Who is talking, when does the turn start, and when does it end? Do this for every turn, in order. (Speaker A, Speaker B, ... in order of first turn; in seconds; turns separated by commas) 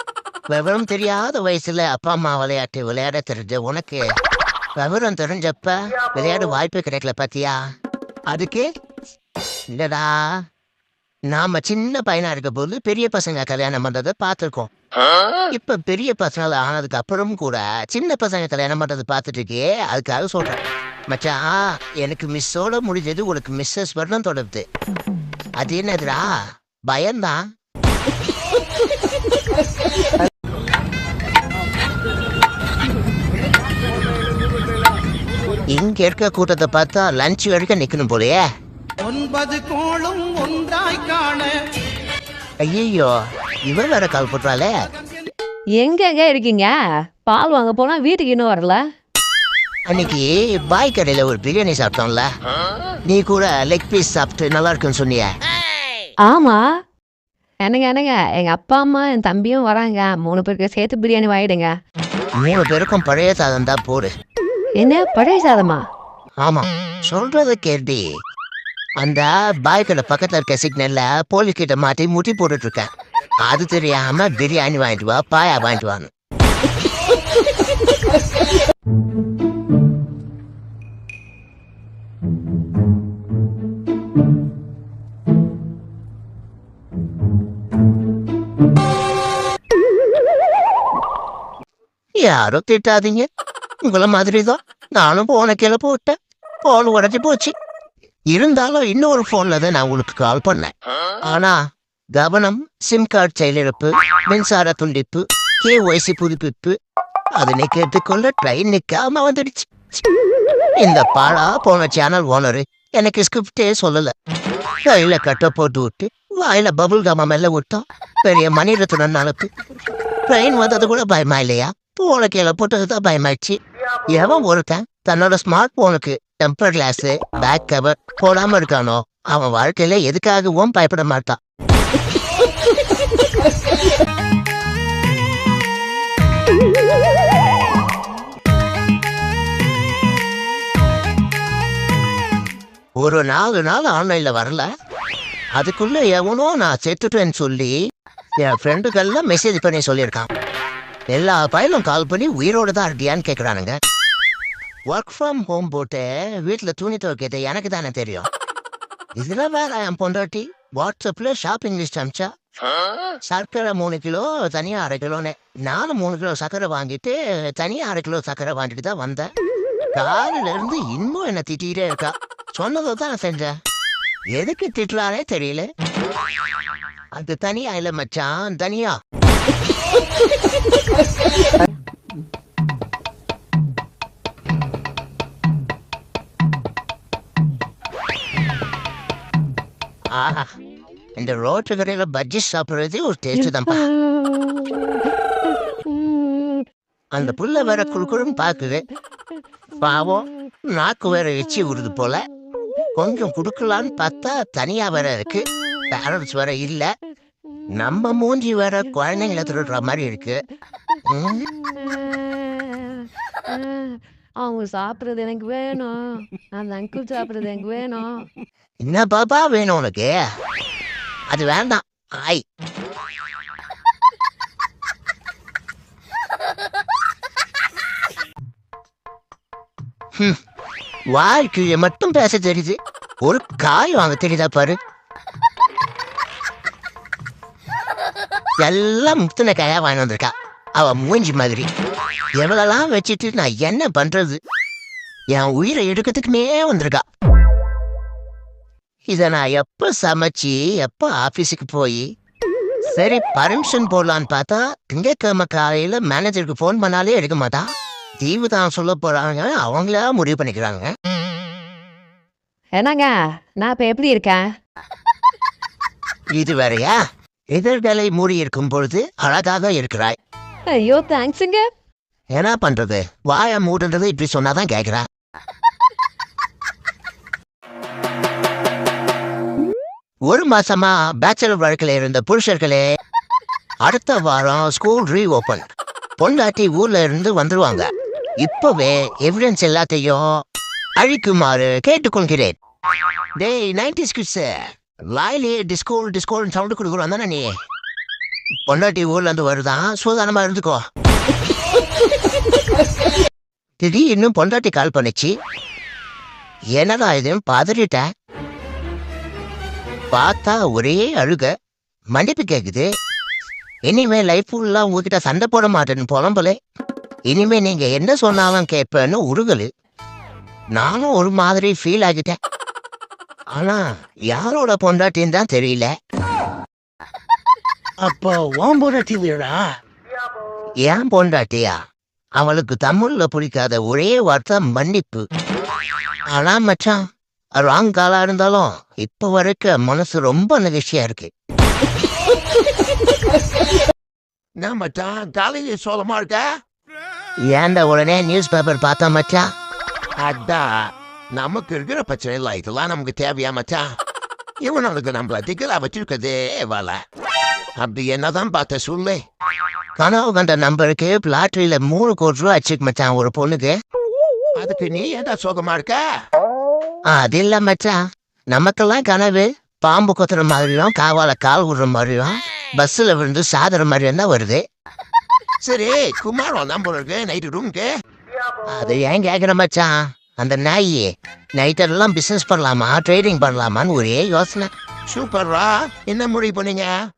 Speaker A: 0.5-4.1, Speaker A: 4.8-7.6, Speaker A: 8.3-8.7, Speaker A: 9.7-10.4, Speaker A: 11.3-14.7, Speaker A: 15.5-24.6, Speaker A: 25.6-27.4, Speaker A: 35.7-38.4, Speaker B: 39.1-41.5, Speaker A: 42.6-44.8, Speaker C: 45.8-48.8, Speaker A: 49.9-52.3, Speaker A: 53.1-55.3, Speaker C: 56.3-56.8, Speaker C: 57.6-61.7, Speaker A: 62.4-64.1, Speaker C: 64.8-65.9, Speaker A: 66.4-68.0, Speaker A: 69.0-72.9, Speaker A: 73.4-76.1, Speaker A: 92.2-93.3, Speaker A: 93.8-97.5, Speaker A: 98.3-100.7, Speaker A: 101.2-101.6, Speaker A: 102.2-106.8, Speaker A: 107.4-110.0, Speaker A: 110.8-114.1, Speaker A: 114.8-119.5, Speaker A: 120.3-123.6, Speaker A: 124.1-131.4, Speaker A: 143.0-144.7, Speaker A: 145.6-147.8, Speaker A: 148.4-150.3, Speaker A: 151.1-153.7, Speaker A: 154.9-158.3, Speaker A: 159.2-162.3, Speaker A: 163.3-169.3, Speaker A: 169.9-173.5, Speaker A: 174.3-175.7, Speaker A: 177.2-179.0, Speaker A: 190.1-190.5, Speaker A: 191.2-193.9, Speaker C: 193.9-196.6, Speaker A: 197.1-198.8, Speaker A: 199.8-202.2, Speaker A: 202.9-206.9, Speaker A: 207.8-210.4, Speaker A: 211.1-211.5, Speaker C: 211.5-218.3, Speaker A: 218.8-220.3, Speaker A: 221.3-222.4, Speaker A: 231.1-234.8, Speaker A: 238.6-241.7, Speaker A: 242.4-244.4, Speaker A: 245.3-247.0, Speaker A: 249.1-252.1, Speaker A: 252.9-257.6, Speaker A: 258.2-260.9, Speaker C: 262.8-264.4, Speaker A: 266.3-267.0, Speaker A: 267.5-270.2, Speaker C: 270.7-271.7, Speaker A: 272.3-275.1, Speaker A: 280.3-282.8, Speaker A: 283.8-285.7, Speaker A: 286.2-290.3, Speaker A: 291.0-292.6, Speaker A: 293.4-297.5, Speaker A: 298.7-300.8, Speaker A: 303.8-305.3, Speaker A: 306.8-308.1, Speaker A: 310.1-311.5, Speaker A: 312.1-312.9, Speaker A: 313.9-316.6, Speaker A: 317.3-319.7, Speaker A: 320.7-322.4, Speaker A: 323.6-325.9, Speaker A: 328.0-329.6, Speaker A: 330.9-331.8, Speaker A: 332.4-335.2, Speaker A: 336.3-337.0, Speaker A: 337.6-341.3, Speaker D: 344.6-346.5, Speaker A: 347.4-349.4, Speaker D: 350.2-353.9, Speaker D: 354.6-357.0, Speaker D: 357.8-359.2, Speaker A: 360.0-363.7, Speaker D: 364.6-366.0, Speaker A: 367.1-368.0, Speaker A: 368.5-374.6, Speaker D: 375.6-377.9, Speaker A: 378.7-384.7, Speaker D: 385.1-386.9